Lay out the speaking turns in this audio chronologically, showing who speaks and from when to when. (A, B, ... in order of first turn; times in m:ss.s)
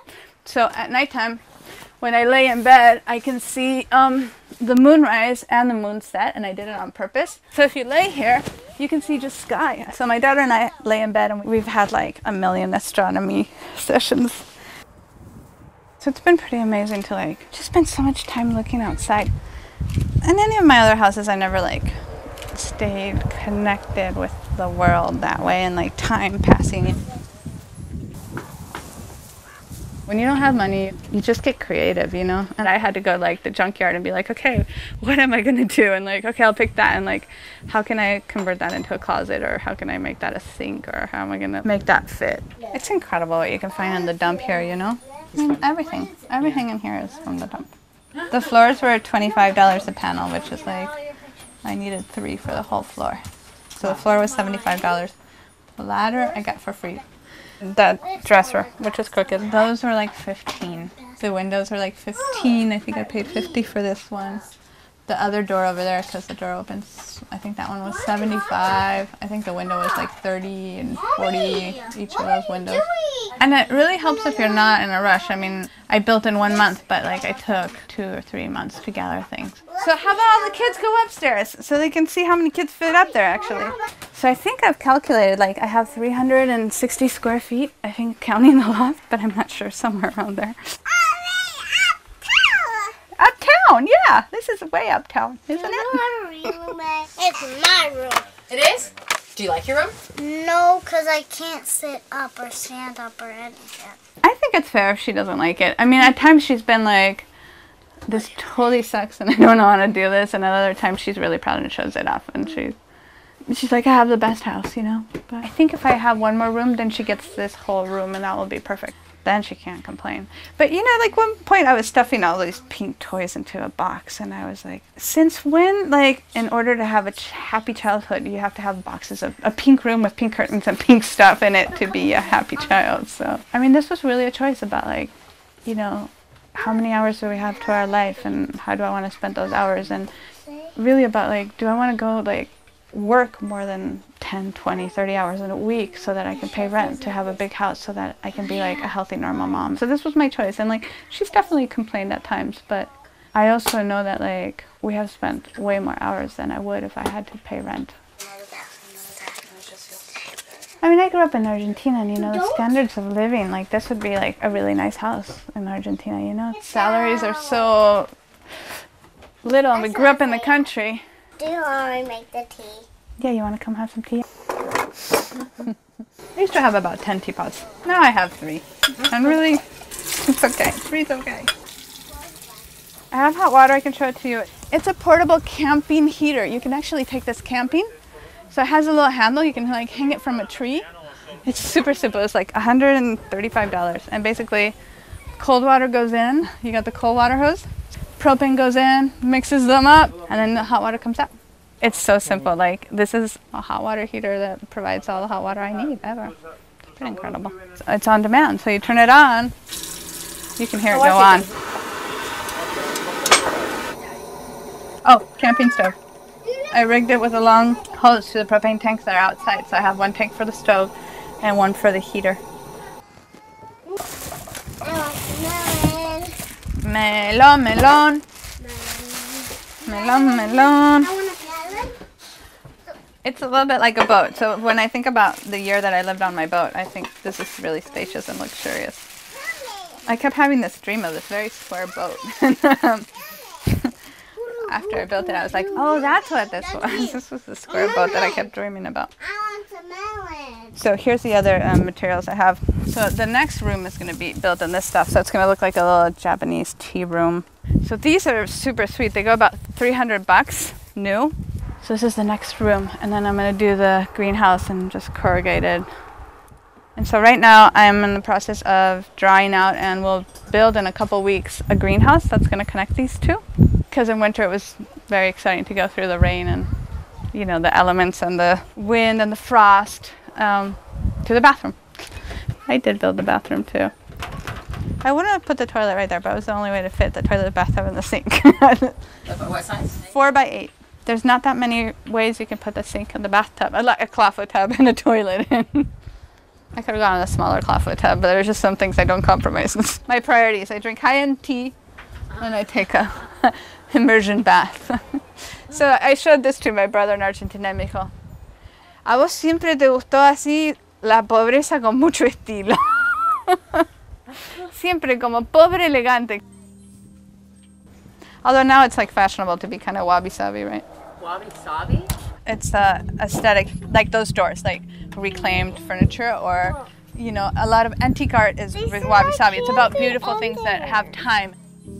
0:00.4-0:01.4 A
0:02.0-0:14.5 A
0:16.0-0:19.3 A
0:20.2-0:22.0 A
0:22.5-0:27.0 A
0:30.1-0:47.7 A
0:48.3-0:51.0 A
0:51.0-0:51.3 B
0:51.6-0:53.2 A
0:53.7-0:55.1 A
0:55.8-0:57.0 A
0:57.6-1:04.4 A
1:02.5-1:03.3 B
1:05.0-1:30.6 A
1:11.2-1:13.4 B
1:19.7-1:20.6 B
1:30.9-1:33.0 B
1:33.2-1:36.0 A
1:35.5-1:38.4 B
1:38.5-1:40.0 C
1:40.1-1:44.0 B
1:44.2-1:47.3 A
1:48.0-1:52.8 A
1:53.5-2:15.1 A
2:15.6-2:20.1 A
2:20.8-2:38.0 A
2:38.3-2:39.5 B
2:38.9-2:40.2 C
2:40.8-2:48.1 A
2:42.2-2:42.6 B
2:46.7-2:47.7 B
2:49.4-2:51.0 A
2:49.7-2:50.6 B
2:51.4-2:52.8 B
2:53.2-2:54.2 A
2:56.3-3:01.5 A
3:03.1-3:07.9 A
3:08.5-3:14.8 A
3:15.4-3:26.4 A
3:26.9-3:29.5 A
3:30.6-3:31.5 A
3:30.9-3:31.5 C
3:35.0-3:36.0 A
3:36.4-3:36.8 B
3:36.7-3:42.4 A
3:44.8-3:46.4 B
3:46.8-3:48.2 A
3:48.6-3:52.0 B
3:49.8-3:51.1 A
3:53.2-3:59.1 A
3:59.5-4:00.0 B
4:00.0-4:03.9 A
4:04.4-4:07.2 B
4:04.5-4:09.1 A
4:07.7-4:08.4 B
4:09.2-4:10.8 B
4:10.8-4:25.9 A
4:27.0-4:36.7 A
4:37.3-4:43.9 A
4:45.0-4:49.0 A
4:49.3-4:50.0 C
4:50.0-4:55.9 A
4:56.7-5:01.7 A
5:02.3-5:08.1 A
5:09.0-5:13.8 A
5:14.4-5:16.4 A
5:18.4-5:20.8 A
5:21.2-5:22.1 C
5:22.4-5:31.6 A
5:28.8-5:31.0 B